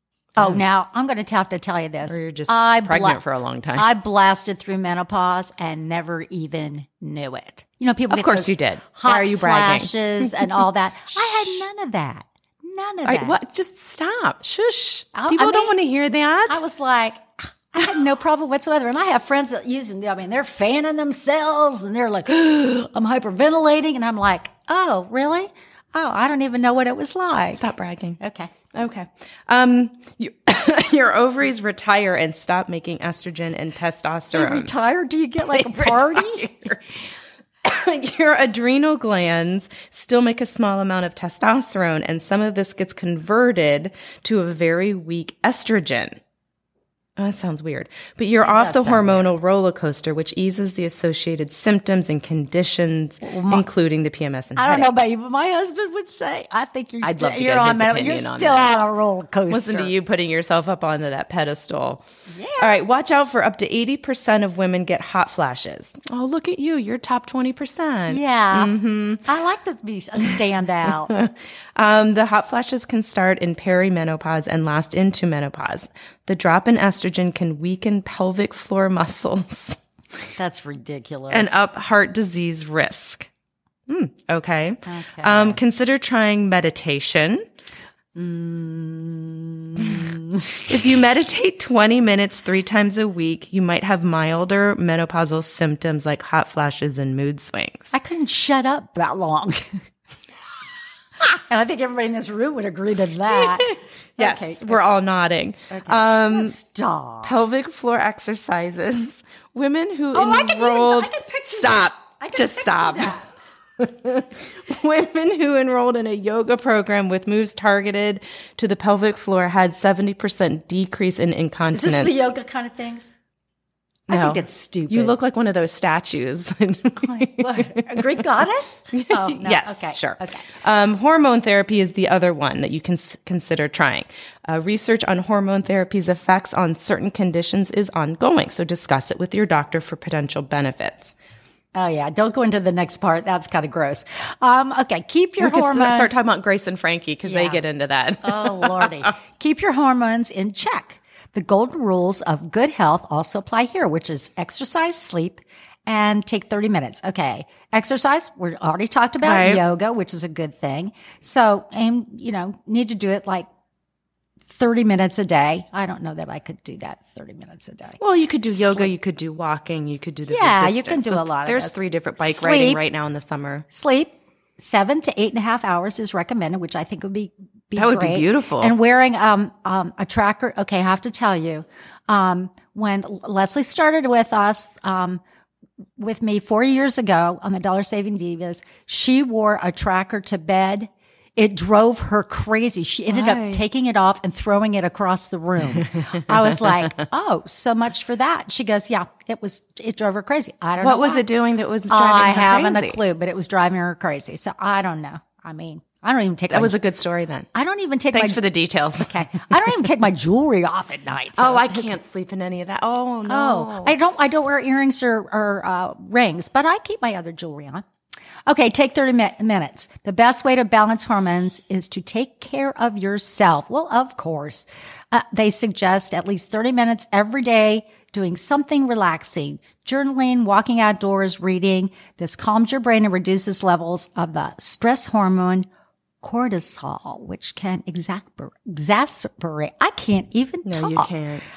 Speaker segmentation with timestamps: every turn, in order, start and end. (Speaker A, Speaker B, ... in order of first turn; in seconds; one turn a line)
Speaker A: 0.4-3.2
Speaker B: 2.1-3.9
Speaker A: 3.7-13.4
Speaker B: 8.1-10.5
Speaker B: 11.2-11.6
Speaker B: 13.0-16.6
Speaker A: 15.1-15.8
Speaker A: 16.5-27.6
Speaker B: 27.5-28.2
Speaker A: 28.2-28.5
Speaker B: 28.7-34.7
Speaker A: 34.3-36.7
Speaker B: 35.5-36.8
Speaker B: 37.6-46.2
Speaker B: 47.2-55.1
Speaker A: 48.4-49.2
Speaker A: 53.2-53.6
Speaker A: 54.5-59.9
Speaker B: 57.0-58.7
Speaker B: 59.5-62.0
Speaker A: 62.3-62.8
Speaker B: 62.6-69.2
Speaker A: 68.1-71.2
Speaker B: 70.9-79.8
Speaker A: 80.4-81.6
Speaker B: 81.3-83.3
Speaker B: 83.9-87.4
Speaker A: 84.8-85.6
Speaker A: 88.1-90.7
Speaker B: 90.7-97.9
Speaker A: 97.9-99.8
Speaker A: 101.2-104.9
Speaker B: 103.3-106.5
Speaker A: 105.7-107.3
Speaker B: 107.2-113.2
Speaker A: 110.1-113.3
Speaker B: 113.8-122.1
Speaker A: 121.7-123.2
Speaker B: 124.1-128.1
Speaker A: 124.1-125.1
Speaker A: 127.0-130.5
Speaker B: 128.9-141.1
Speaker A: 141.7-146.2
Speaker B: 145.4-149.1
Speaker A: 147.2-147.6
Speaker A: 148.2-163.5
Speaker B: 159.2-159.6
Speaker A: 164.5-168.9
Speaker B: 168.0-173.6
Speaker A: 170.2-172.8
Speaker A: 173.7-185.2
Speaker B: 177.8-178.7
Speaker A: 186.0-201.2
Speaker B: 193.1-193.6
Speaker B: 200.8-203.0
Speaker A: 201.9-206.8
Speaker B: 206.5-207.5
Speaker A: 207.5-208.4
Speaker B: 208.1-209.4
Speaker A: 208.9-211.9
Speaker B: 211.4-213.9
Speaker A: 213.2-217.8
Speaker A: 218.5-235.7
Speaker A: 236.2-241.1
Speaker B: 240.6-241.4